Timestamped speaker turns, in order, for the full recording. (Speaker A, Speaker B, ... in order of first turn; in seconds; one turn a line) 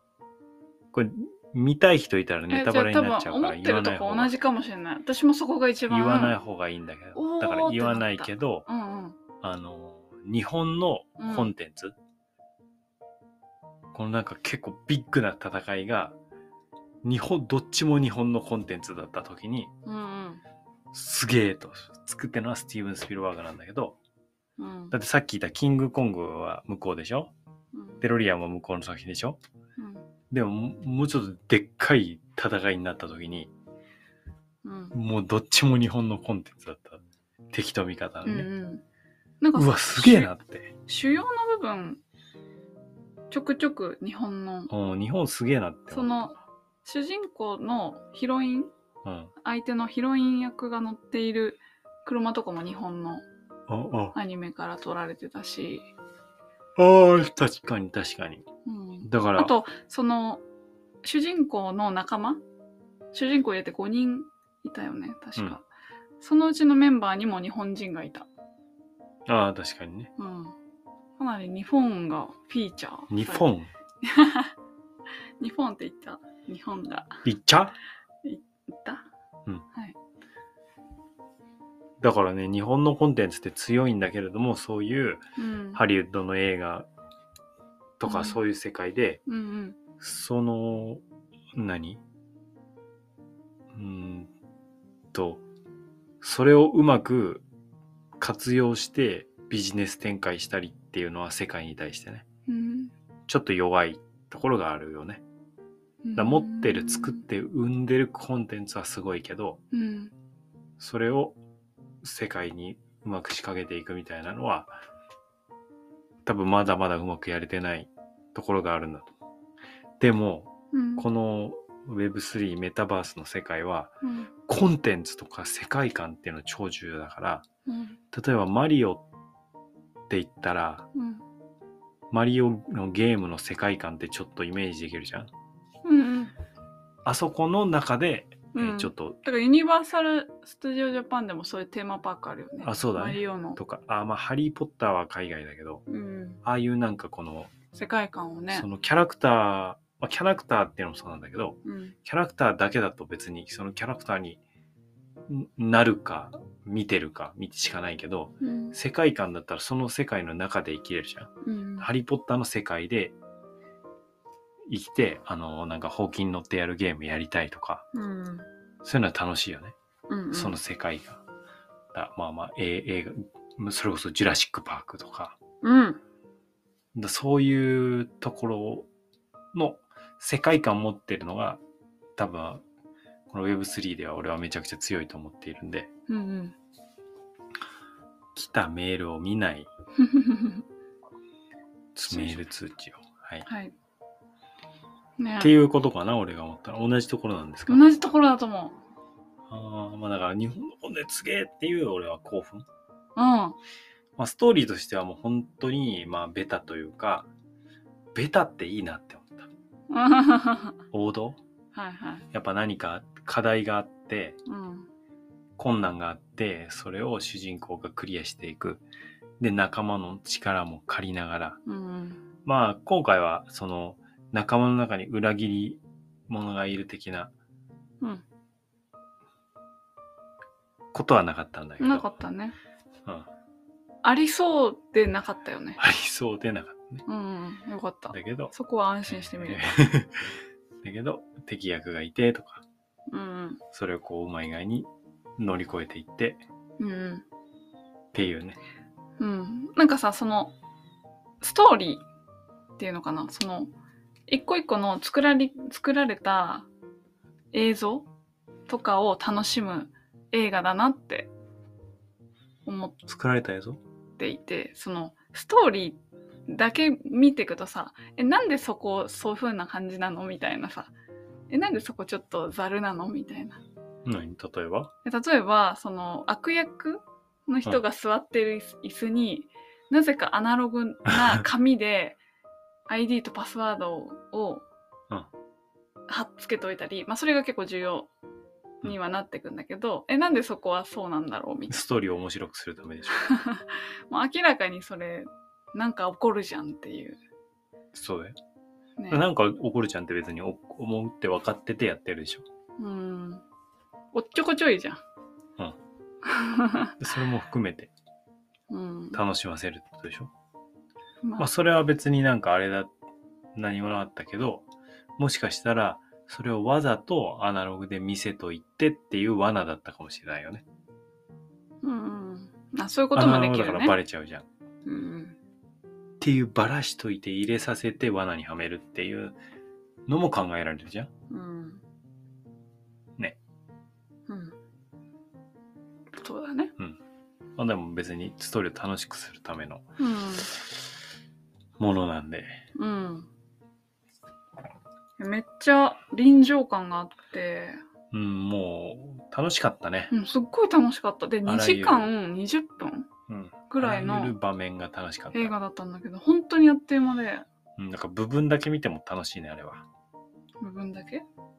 Speaker A: 0.9-4.3
Speaker B: 2.5-6.3
Speaker A: 5.9-8.7
Speaker B: 7.2-9.2
Speaker A: 9.4-12.0
Speaker B: 11.2-11.5
Speaker A: 13.9-16.2
Speaker A: 17.0-19.7
Speaker B: 19.9-20.4
Speaker A: 20.9-24.0
Speaker B: 24.6-24.9
Speaker A: 24.9-27.3
Speaker B: 27.7-28.0
Speaker A: 28.0-29.4
Speaker B: 29.8-30.1
Speaker A: 30.3-33.5
Speaker B: 34.6-35.0
Speaker A: 34.9-38.5
Speaker B: 38.2-38.8
Speaker B: 39.4-40.3
Speaker A: 39.5-40.7
Speaker B: 40.9-42.0
Speaker B: 43.3-44.7
Speaker A: 44.7-46.2
Speaker B: 45.9-48.7
Speaker A: 49.0-49.3
Speaker B: 49.4-53.2
Speaker A: 53.7-54.2
Speaker B: 54.1-55.9
Speaker A: 56.8-58.5
Speaker B: 58.6-60.4
Speaker A: 59.0-59.5
Speaker B: 61.0-62.4
Speaker B: 63.1-65.7
Speaker B: 66.2-68.3
Speaker A: 69.3-70.1
Speaker B: 70.2-70.6
Speaker B: 71.2-73.5
Speaker A: 73.1-73.7
Speaker B: 74.0-74.5
Speaker B: 75.4-77.2
Speaker A: 77.2-77.8
Speaker B: 78.2-79.0
Speaker A: 82.0-85.2
Speaker B: 85.4-85.8
Speaker A: 85.8-86.9
Speaker A: 88.0-89.2
Speaker B: 88.0-88.4
Speaker B: 89.3-89.8
Speaker A: 90.0-91.0
Speaker A: 91.5-92.0
Speaker A: 93.7-94.3
Speaker A: 95.1-95.4
Speaker A: 96.2-97.4
Speaker A: 98.2-102.2
Speaker B: 102.5-102.9
Speaker A: 103.3-105.2
Speaker B: 106.0-107.2
Speaker A: 106.2-109.6
Speaker B: 109.7-110.1
Speaker A: 110.8-111.4
Speaker A: 112.0-114.8
Speaker A: 116.2-119.2
Speaker A: 120.0-123.9
Speaker B: 120.7-121.1
Speaker B: 124.0-124.3
Speaker A: 124.5-127.4
Speaker B: 127.7-128.0
Speaker A: 128.1-129.1
Speaker A: 130.1-130.9
Speaker B: 130.9-131.2
Speaker A: 132.1-135.3
Speaker B: 135.8-136.3
Speaker A: 137.1-139.2
Speaker B: 138.5-143.6
Speaker A: 142.6-145.8
Speaker B: 145.9-146.4
Speaker A: 146.4-147.5
Speaker B: 147.7-148.7
Speaker A: 148.5-154.4
Speaker B: 151.6-152.0
Speaker A: 155.3-163.2
Speaker B: 158.4-158.8
Speaker B: 161.4-161.9
Speaker A: 164.7-167.8
Speaker B: 167.9-168.5
Speaker A: 168.8-169.7
Speaker B: 170.1-170.6
Speaker A: 170.3-171.2
Speaker A: 171.9-175.4
Speaker B: 175.6-176.0
Speaker A: 176.9-178.9
Speaker A: 179.5-181.6
Speaker A: 182.2-182.6
Speaker A: 183.3-185.9
Speaker B: 186.1-186.6
Speaker A: 188.3-189.7
Speaker B: 190.0-190.6
Speaker A: 191.9-193.5
Speaker B: 192.1-192.4
Speaker B: 193.4-193.7
Speaker B: 195.2-195.5
Speaker A: 195.4-197.9
Speaker B: 197.7-198.8
Speaker A: 199.5-202.7
Speaker B: 203.2-203.6
Speaker A: 204.2-207.3
Speaker A: 208.1-209.5
Speaker B: 209.9-210.8
Speaker A: 210.9-211.4
Speaker B: 211.7-212.2
Speaker A: 212.3-214.4
Speaker B: 214.5-214.9
Speaker A: 215.6-218.8
Speaker A: 219.4-221.6
Speaker B: 221.7-222.2
Speaker A: 222.4-227.3
Speaker A: 230.9-232.1
Speaker B: 231.8-232.6
Speaker B: 234.0-235.8
Speaker A: 235.8-237.0
Speaker B: 237.1-239.7
Speaker A: 238.1-238.5
Speaker A: 239.1-242.6
Speaker B: 243.1-243.6
Speaker A: 243.7-246.4
Speaker B: 246.8-247.2
Speaker A: 248.1-248.6
Speaker B: 249.2-250.5
Speaker B: 251.4-252.1
Speaker B: 252.8-253.7
Speaker B: 254.3-256.7
Speaker B: 257.5-258.1
Speaker B: 258.7-261.3
Speaker B: 262.6-263.0
Speaker A: 263.1-263.8
Speaker B: 264.2-270.9
Speaker B: 271.5-273.6
Speaker A: 274.1-274.9
Speaker B: 275.0-282.2
Speaker B: 282.9-284.6
Speaker B: 286.1-288.1
Speaker B: 288.8-291.8
Speaker A: 291.7-293.3
Speaker B: 293.1-297.2
Speaker A: 297.9-298.4
Speaker B: 299.0-299.2
Speaker A: 299.1-302.4
Speaker B: 302.8-303.4
Speaker B: 304.1-305.0
Speaker B: 306.2-306.9
Speaker A: 307.0-307.9
Speaker B: 308.7-309.2
Speaker A: 309.1-310.3
Speaker A: 311.4-312.9
Speaker A: 313.6-314.6
Speaker A: 315.2-320.6
Speaker B: 321.8-324.0
Speaker A: 323.1-324.5
Speaker B: 324.9-325.4
Speaker A: 326.2-329.4
Speaker A: 330.1-331.1
Speaker B: 331.3-331.8
Speaker B: 334.3-334.6
Speaker B: 336.2-336.7
Speaker A: 337.6-339.8
Speaker B: 340.0-340.5
Speaker A: 341.8-342.6
Speaker B: 342.8-343.3
Speaker B: 345.2-347.8
Speaker A: 348.1-350.1
Speaker B: 350.1-353.1
Speaker A: 351.5-352.1
Speaker A: 353.3-355.5
Speaker B: 353.7-354.4
Speaker B: 355.3-357.4
Speaker A: 357.8-359.9
Speaker B: 360.6-361.2